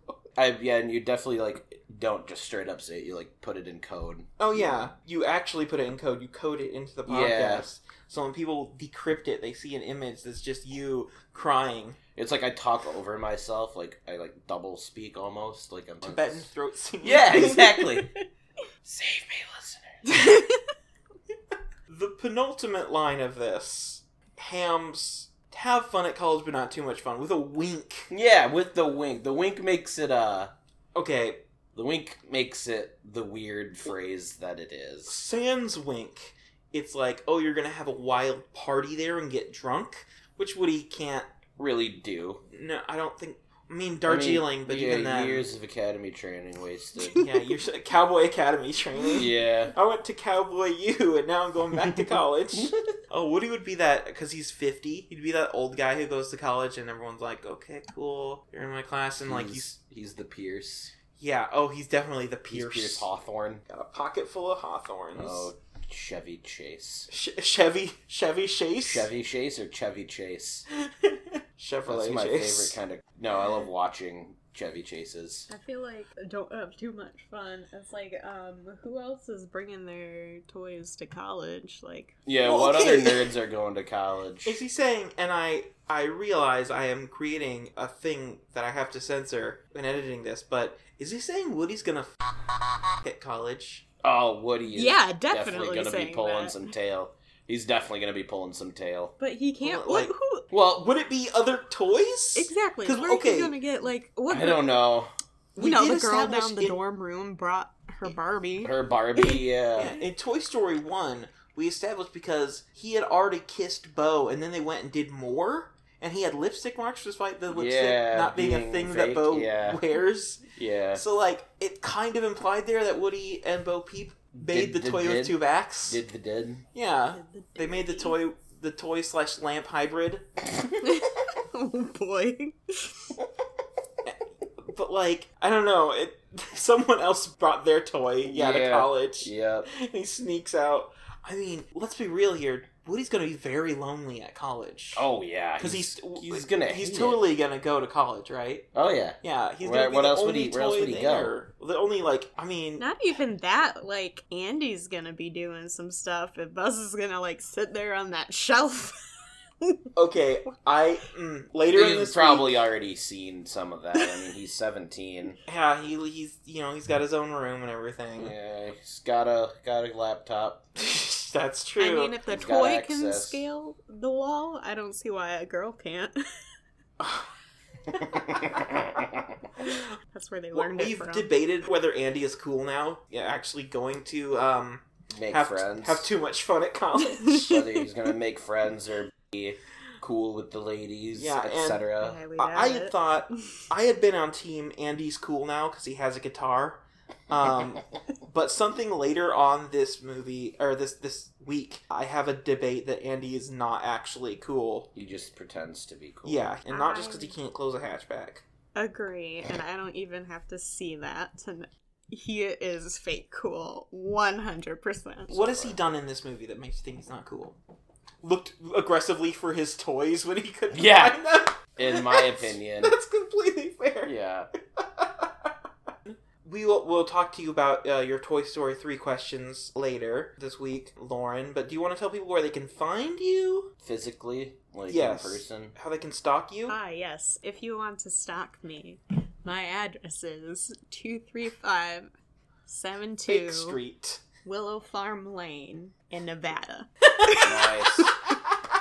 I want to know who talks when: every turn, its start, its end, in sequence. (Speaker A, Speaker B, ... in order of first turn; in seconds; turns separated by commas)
Speaker A: 0.4-4.9, Speaker B: 4.4-12.0, Speaker A: 7.1-7.6, Speaker A: 12.1-16.5, Speaker B: 16.0-18.1, Speaker A: 17.0-18.1, Speaker A: 18.8-19.9, Speaker C: 20.1-20.6, Speaker B: 21.9-28.1, Speaker A: 28.1-30.5, Speaker B: 30.9-31.4, Speaker A: 31.7-35.2, Speaker B: 35.1-41.3, Speaker A: 41.6-42.4, Speaker B: 42.5-45.5, Speaker A: 44.1-47.2, Speaker C: 47.0-47.4, Speaker B: 47.2-59.7, Speaker A: 49.1-49.7, Speaker A: 51.8-52.7, Speaker A: 59.2-60.9, Speaker B: 61.2-63.1, Speaker A: 62.5-63.6, Speaker B: 63.7-65.5, Speaker A: 65.2-67.1, Speaker B: 67.1-69.1, Speaker A: 68.8-70.7, Speaker B: 71.0-72.8, Speaker A: 71.9-75.5, Speaker C: 75.5-82.1, Speaker A: 82.2-84.6, Speaker B: 82.4-83.3, Speaker B: 84.5-92.1, Speaker B: 93.0-93.8, Speaker A: 94.0-99.1, Speaker C: 94.7-96.7, Speaker C: 99.2-100.4, Speaker B: 99.6-103.5, Speaker A: 100.5-100.8, Speaker C: 102.3-104.7, Speaker A: 104.3-105.1, Speaker B: 105.5-106.8, Speaker C: 105.6-109.9, Speaker A: 108.6-110.0, Speaker B: 109.8-126.0, Speaker A: 117.5-119.8, Speaker A: 120.5-121.0, Speaker A: 124.4-126.6, Speaker B: 126.7-130.2, Speaker C: 127.1-128.2, Speaker C: 130.8-133.1, Speaker B: 134.7-145.1, Speaker A: 138.2-139.7, Speaker A: 144.9-147.2, Speaker B: 145.6-148.7, Speaker A: 148.7-151.3, Speaker B: 149.2-152.9, Speaker C: 152.8-158.9, Speaker B: 159.9-162.6, Speaker A: 161.7-165.4, Speaker B: 165.5-168.3, Speaker A: 168.2-170.7, Speaker B: 170.8-172.2, Speaker C: 171.8-176.2, Speaker A: 172.3-173.4, Speaker B: 177.0-177.2, Speaker A: 178.2-179.2, Speaker C: 179.6-181.3, Speaker B: 180.5-187.7, Speaker A: 185.1-186.1, Speaker A: 187.3-192.2, Speaker B: 191.1-204.9, Speaker C: 192.0-193.5, Speaker A: 204.9-206.5, Speaker B: 206.2-208.4, Speaker C: 206.7-207.4, Speaker C: 208.7-215.4, Speaker B: 215.3-217.6, Speaker A: 215.3-215.8, Speaker B: 218.2-224.1, Speaker A: 220.7-221.2, Speaker A: 221.7-222.9, Speaker A: 224.0-224.5, Speaker B: 224.8-225.3, Speaker B: 226.1-233.7, Speaker A: 233.8-235.7, Speaker B: 234.9-236.8, Speaker C: 236.7-242.1, Speaker C: 242.7-243.8, Speaker B: 243.3-244.2, Speaker C: 244.4-247.7, Speaker B: 247.2-247.4, Speaker A: 247.4-248.1